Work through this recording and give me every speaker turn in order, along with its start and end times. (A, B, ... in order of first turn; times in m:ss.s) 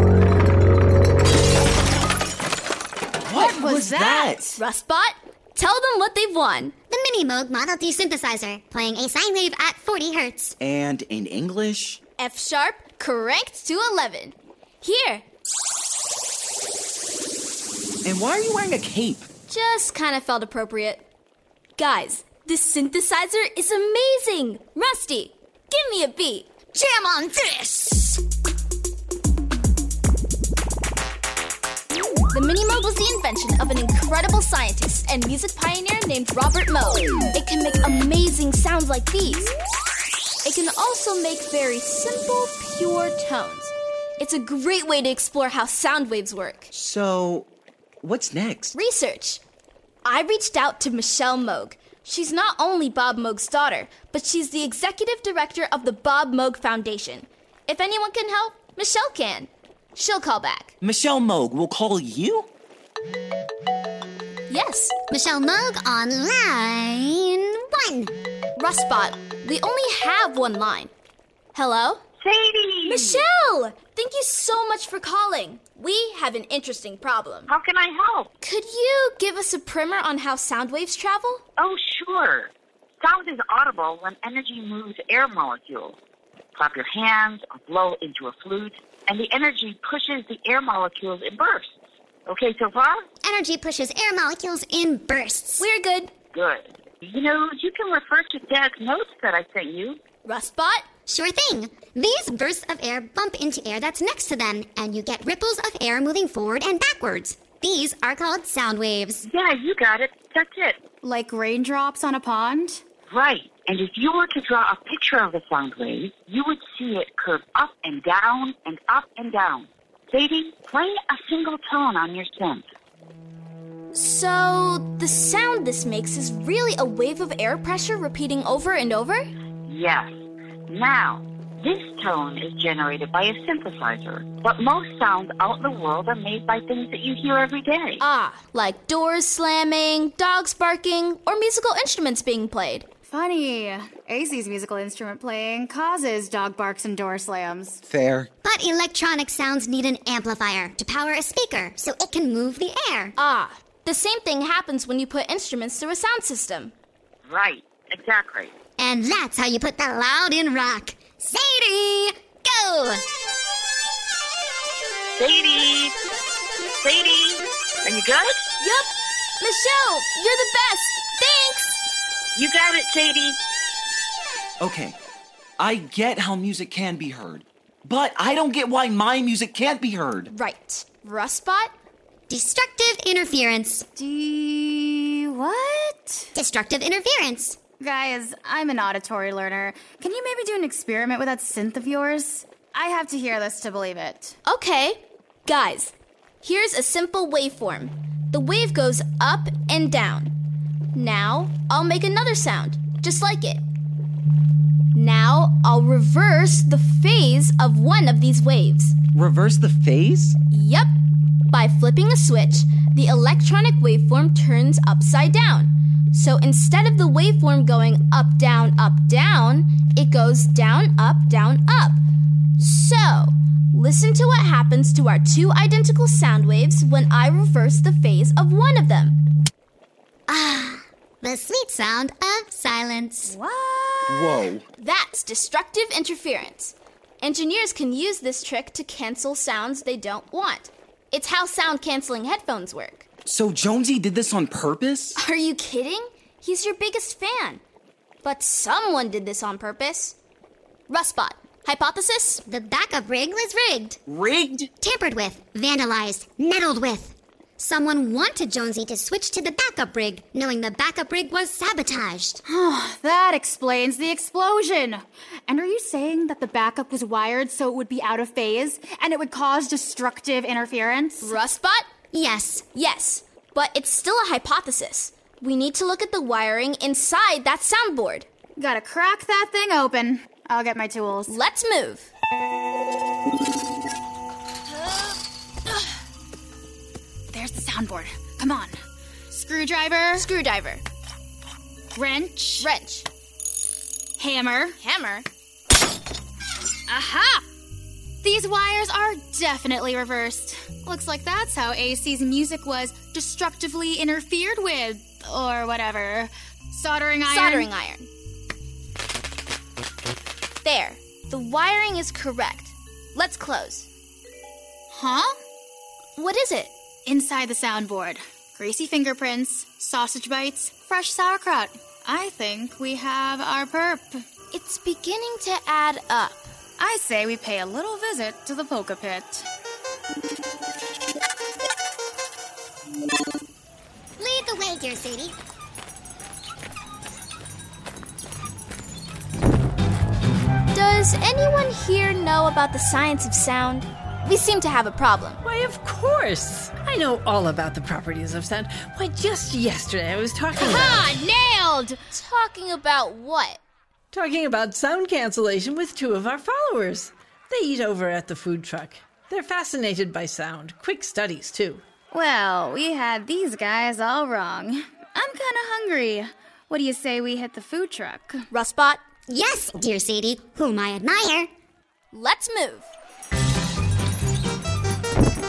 0:03.2-0:04.5 A
0:03.4-0:04.5 B
0:04.6-0:06.7 C
0:06.9-0:10.5 D
0:10.6-0:12.0 A
0:12.2-0:15.2 C
0:18.0-0:19.3 A
0:19.5-0:21.0 C
0:21.8-0:26.5 C
0:26.7-0:28.1 D
0:32.3-0:39.5 C
0:40.4-0:46.7 C
0:46.7-0:47.5 A
0:48.0-0:48.8 A
0:48.7-0:49.4 C
0:50.0-1:00.7 C
1:00.8-1:02.5 A
1:04.5-1:04.9 C
1:05.1-1:08.1 D
1:08.6-1:10.9 C
1:11.5-1:12.0 C
1:12.2-1:13.2 E
1:12.8-1:17.5 C
1:17.5-1:18.3 E
1:18.4-1:21.4 C
1:21.6-1:26.0 E
1:26.5-1:31.7 E
1:32.3-1:33.0 E
1:33.2-1:35.7 D
1:35.6-1:36.1 C
1:36.3-1:40.0 E
1:40.2-1:40.8 C
1:41.1-1:49.2 D
1:49.2-1:50.8 E
1:51.0-1:52.8 B
1:53.1-2:02.7 E
2:03.9-2:09.2 C
2:09.7-2:10.1 E
2:10.7-2:18.0 E
2:18.0-2:22.9 C
2:23.1-2:27.8 B
2:27.9-2:28.3 A
2:28.4-2:33.1 D
2:33.2-2:36.7 C
2:37.3-2:38.5 E
2:38.8-2:43.0 D
2:45.2-2:46.0 E
2:46.8-2:48.4 E
2:48.6-2:51.8 C
2:52.4-2:53.4 E
2:54.6-2:55.0 A
2:55.6-3:00.3 A
3:00.3-3:01.7 C
3:02.3-3:03.8 D
3:04.0-3:06.3 B
3:06.3-3:07.6 D
3:07.8-3:14.3 B
3:14.4-3:20.3 C
3:20.9-3:23.6 C
3:24.9-3:28.9 C
3:29.1-3:30.4 A
3:30.5-3:30.9 C
3:31.5-3:42.0 C
3:42.6-3:49.2 C
3:50.3-3:53.3 D
3:53.2-3:54.5 B
3:54.1-3:54.6 A
3:54.8-4:03.0 C
4:03.2-4:05.2 A
4:05.2-4:07.6 C
4:08.2-4:10.2 C
4:10.9-4:12.4 C
4:12.4-4:14.0 D
4:14.1-4:14.7 A
4:14.8-4:22.4 D
4:22.4-4:31.4 B
4:31.2-4:31.9 C
4:32.1-4:32.6 D
4:32.7-4:38.3 C
4:38.6-4:41.3 B
4:41.3-4:42.1 C
4:47.3-4:48.8 B
4:49.3-4:50.3 B
4:50.1-4:50.8 C
4:51.9-4:52.7 B
4:52.6-4:53.1 C
4:54.2-4:54.8 B
4:54.8-4:55.3 C
4:56.9-4:57.4 B
4:58.2-5:07.7 B
5:07.3-5:08.1 C
5:10.6-5:13.9 C
5:14.9-5:15.3 B
5:16.2-5:16.7 C
5:17.0-5:24.2 B
5:24.5-5:26.5 C
5:26.8-5:29.5 B
5:34.2-5:35.3 D
5:40.7-5:45.4 C
5:45.4-5:51.2 F
5:50.6-5:53.6 C
5:54.1-6:01.8 F
6:02.1-6:08.4 B
6:08.5-6:09.0 C
6:09.3-6:11.5 D
6:12.1-6:12.9 C